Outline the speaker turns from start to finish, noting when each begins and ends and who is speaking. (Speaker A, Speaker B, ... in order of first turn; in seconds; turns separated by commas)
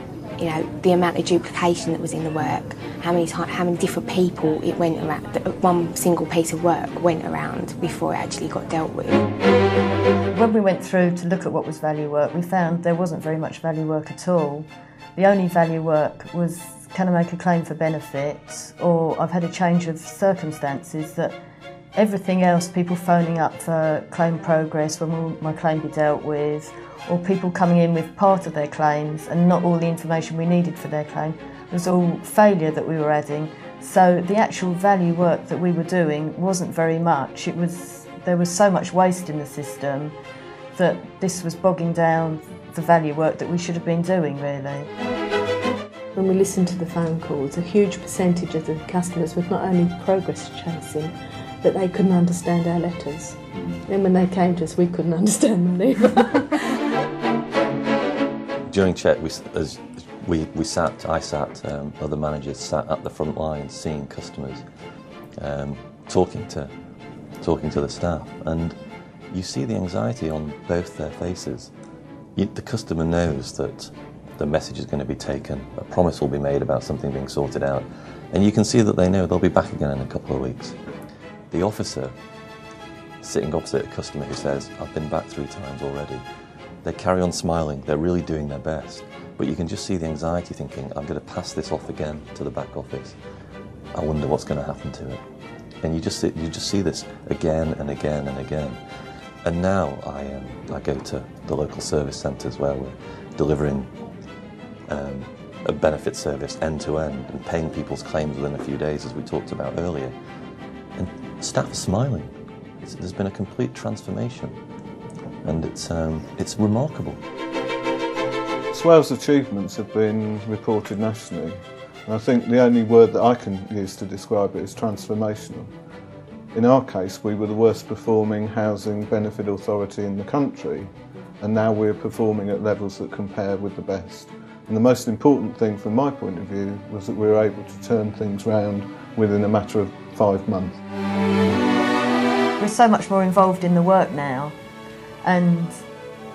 Speaker A: 0.4-9.2, Speaker B: 10.3-21.4, Speaker B: 22.0-40.1, Speaker B: 40.8-44.9, Speaker C: 46.1-56.7, Speaker D: 58.7-64.6, Speaker D: 65.4-66.7, Speaker D: 67.4-68.8, Speaker D: 69.3-71.7, Speaker D: 72.4-80.8, Speaker D: 81.5-82.2, Speaker D: 83.2-86.2, Speaker D: 86.8-93.2, Speaker D: 93.9-95.2, Speaker D: 95.8-98.8, Speaker D: 99.5-103.9, Speaker D: 104.9-110.2, Speaker D: 111.0-112.3, Speaker D: 112.8-114.6, Speaker D: 115.4-117.2, Speaker E: 118.7-125.7, Speaker E: 126.5-140.8, Speaker B: 142.6-144.6, Speaker B: 145.2-145.8